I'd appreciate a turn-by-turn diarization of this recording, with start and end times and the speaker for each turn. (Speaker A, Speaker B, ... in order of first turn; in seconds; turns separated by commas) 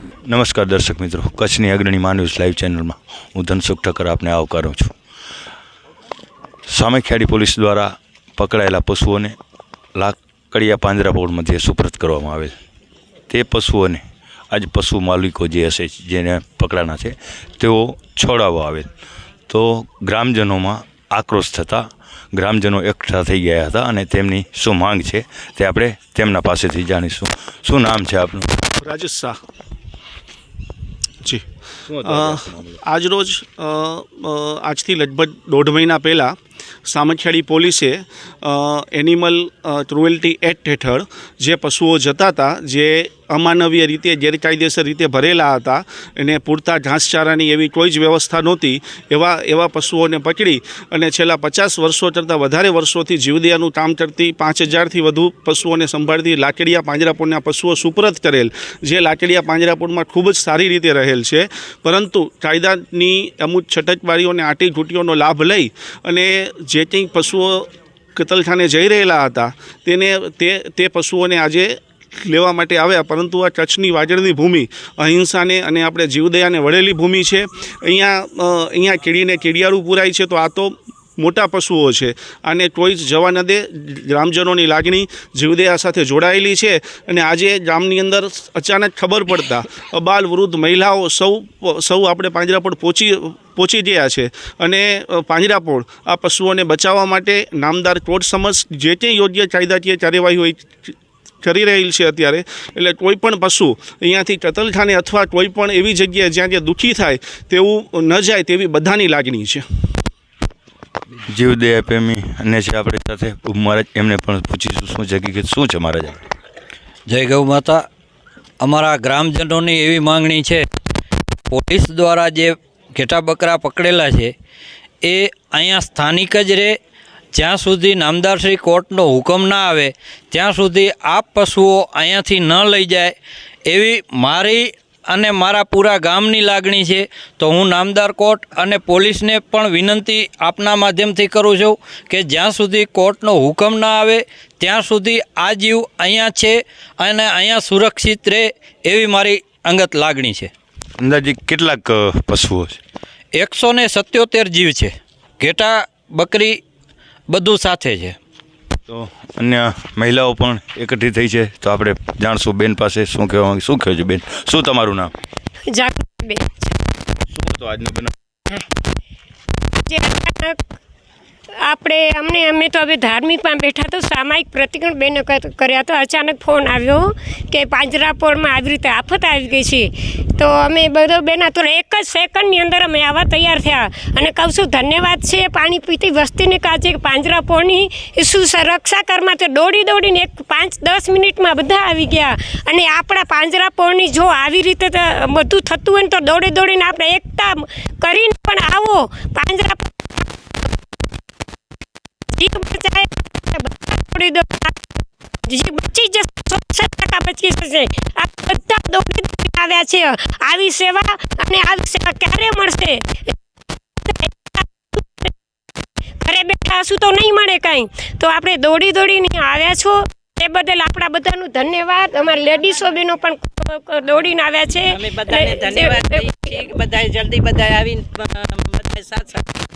Speaker A: 0.3-4.9, Speaker A: 6.7-9.3, Speaker A: 9.9-12.5, Speaker A: 13.3-18.9, Speaker A: 19.5-28.6, Speaker B: 28.8-29.4, Speaker A: 31.9-32.6, Speaker B: 32.0-36.3, Speaker B: 36.9-109.6, Speaker A: 111.3-116.2, Speaker C: 117.1-117.8, Speaker C: 118.6-120.7, Speaker C: 121.5-124.3, Speaker C: 125.0-126.8, Speaker C: 127.3-150.5, Speaker A: 151.0-152.8, Speaker C: 153.3-156.6, Speaker C: 157.3-158.2, Speaker A: 158.9-165.1, Speaker D: 165.7-166.7, Speaker A: 167.3-168.1, Speaker D: 169.8-170.6, Speaker D: 171.6-200.3, Speaker D: 202.3-213.3, Speaker D: 214.0-215.3, Speaker D: 216.2-226.7, Speaker E: 225.2-229.4